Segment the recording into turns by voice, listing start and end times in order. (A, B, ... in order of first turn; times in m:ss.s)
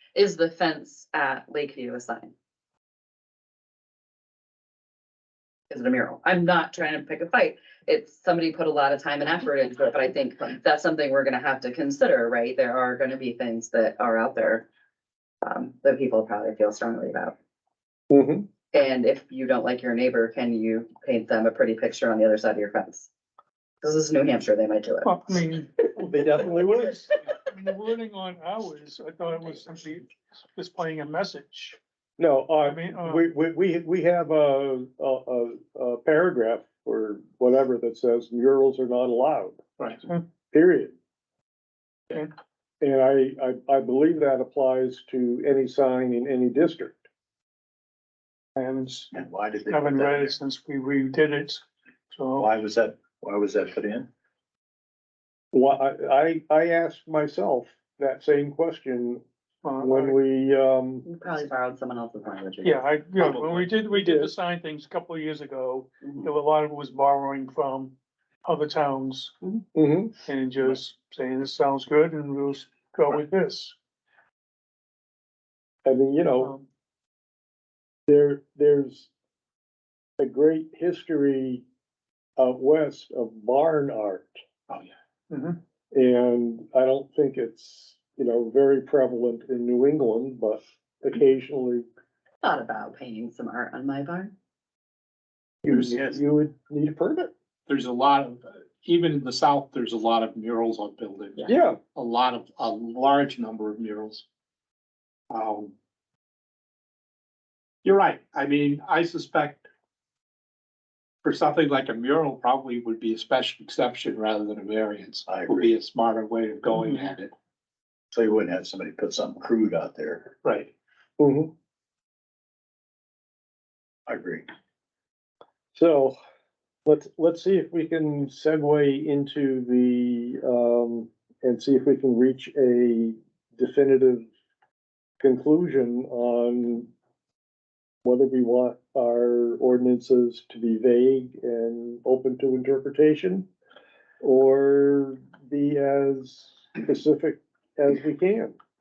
0:00.1-0:02.3 A
0:05.7-0:14.7 A
0:15.4-0:17.4 A
0:18.1-0:18.5 B
0:18.7-0:23.1 A
0:23.8-0:25.4 A
0:25.0-0:26.1 C
0:26.0-0:27.0 B
0:26.7-0:31.8 C
0:32.2-0:39.6 B
0:32.6-0:33.2 C
0:40.5-0:40.9 B
0:42.8-0:47.0 B
0:48.6-0:49.1 C
0:49.1-0:50.3 D
0:49.7-0:52.5 C
0:52.4-0:54.1 D
0:55.5-0:59.2 B
0:59.6-1:00.2 C
0:59.8-1:01.0 B
1:01.0-1:02.8 A
1:02.6-1:07.9 C
1:03.3-1:03.8 E
1:03.9-1:04.3 B
1:08.4-1:09.4 C
1:09.7-1:10.2 B
1:10.2-1:13.7 C
1:15.8-1:16.5 B
1:18.1-1:19.1 B
1:20.2-1:21.6 B
1:22.4-1:24.3 B
1:25.3-1:25.6 C
1:25.9-1:31.8 B
1:32.4-1:34.3 A
1:35.6-1:37.3 B
1:35.7-1:36.1 E
1:37.7-1:44.2 E
1:41.4-1:41.8 B
1:45.3-1:45.7 E
1:47.8-1:49.7 E
1:51.2-1:57.3 E
1:55.3-1:55.7 D
1:58.1-2:00.3 D
2:00.4-2:00.7 E
2:01.2-2:01.5 B
2:04.1-2:04.4 D
2:05.7-2:06.1 B
2:06.8-2:14.3 B
2:15.2-2:16.9 B
2:18.0-2:23.5 B
2:24.2-2:28.6 B